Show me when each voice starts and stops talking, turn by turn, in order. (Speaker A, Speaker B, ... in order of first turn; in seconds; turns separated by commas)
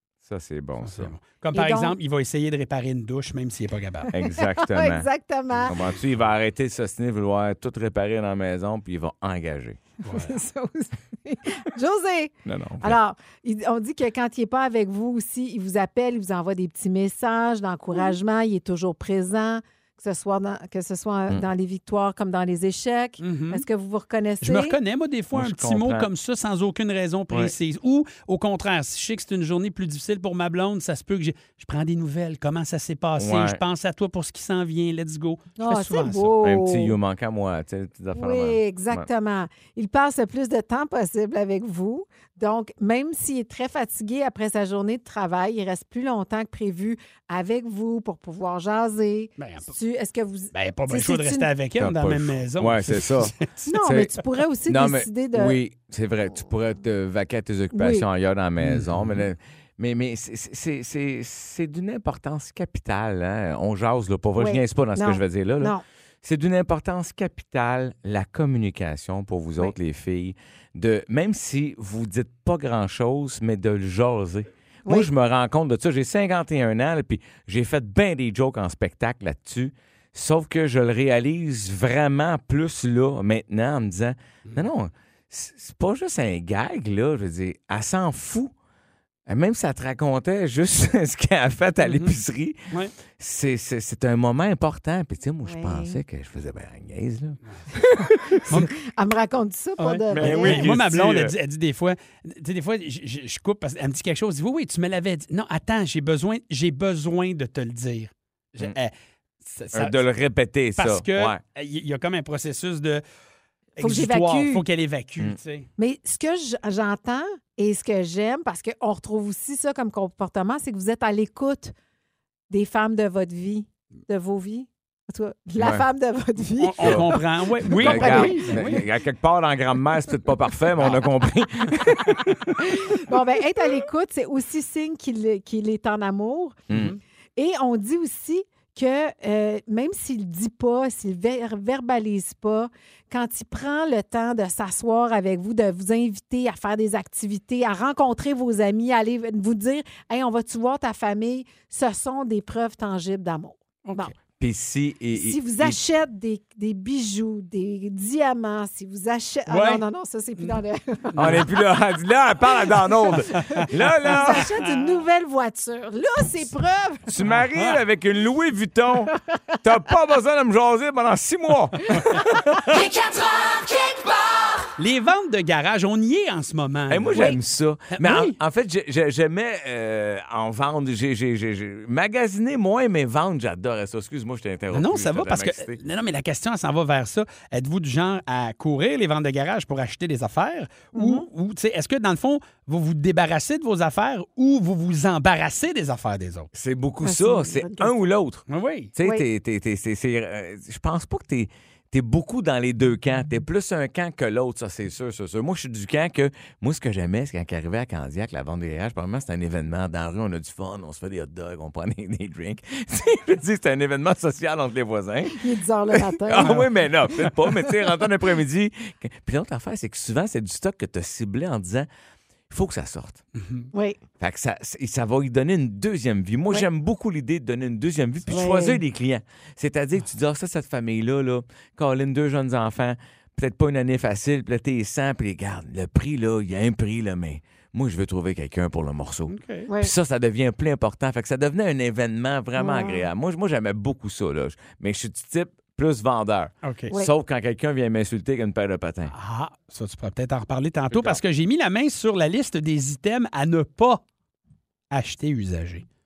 Speaker A: 0.2-1.1, Speaker B: 0.8-4.1, Speaker C: 1.5-1.9, Speaker A: 4.1-5.1, Speaker C: 4.3-5.8, Speaker A: 5.7-9.8, Speaker C: 10.0-24.8, Speaker B: 10.0-10.4, Speaker A: 12.4-13.0, Speaker B: 23.2-23.6, Speaker B: 24.4-36.3, Speaker A: 25.3-26.1, Speaker A: 33.2-33.6, Speaker C: 35.6-37.0, Speaker A: 36.4-39.1, Speaker C: 38.1-51.5, Speaker B: 49.4-49.7, Speaker B: 50.5-53.7, Speaker A: 51.8-54.1, Speaker C: 53.7-55.6, Speaker A: 54.6-88.5, Speaker C: 57.7-58.0, Speaker B: 58.6-59.2, Speaker C: 64.4-65.8, Speaker A: 89.3-98.5, Speaker B: 91.8-92.2, Speaker C: 95.4-96.0, Speaker B: 98.5-98.7, Speaker C: 98.8-100.7, Speaker B: 99.8-108.9, Speaker A: 100.1-101.3, Speaker B: 109.4-110.0, Speaker A: 109.7-111.4, Speaker B: 110.8-113.0, Speaker B: 113.8-115.7, Speaker C: 113.8-114.6, Speaker C: 115.8-121.7, Speaker C: 122.5-128.8, Speaker A: 125.6-125.8, Speaker B: 126.6-128.8, Speaker A: 126.8-127.1, Speaker A: 127.7-132.5, Speaker B: 130.8-131.0, Speaker C: 132.6-136.6, Speaker A: 136.7-136.9, Speaker B: 136.7-137.0, Speaker C: 137.4-154.1, Speaker B: 153.8-154.1, Speaker A: 154.4-155.8, Speaker C: 155.1-161.4, Speaker B: 159.5-159.8, Speaker B: 161.1-161.4, Speaker A: 161.2-164.5, Speaker C: 163.0-167.1, Speaker B: 163.4-163.7, Speaker A: 167.1-173.1, Speaker B: 167.2-167.8, Speaker B: 174.8-177.3, Speaker A: 176.9-185.8, Speaker B: 177.9-178.3, Speaker B: 184.7-196.5, Speaker C: 190.9-191.2, Speaker A: 196.5-221.9, Speaker C: 197.0-197.9, Speaker B: 198.5-198.9, Speaker C: 215.3-216.6, Speaker B: 216.4-216.7, Speaker A: 222.5-223.2, Speaker B: 223.4-223.7, Speaker C: 223.7-224.0, Speaker A: 224.2-249.1, Speaker C: 228.3-228.8, Speaker B: 239.3-239.7, Speaker C: 242.6-243.1, Speaker B: 246.6-246.9, Speaker B: 249.1-254.0, Speaker A: 250.9-251.2, Speaker B: 254.9-255.8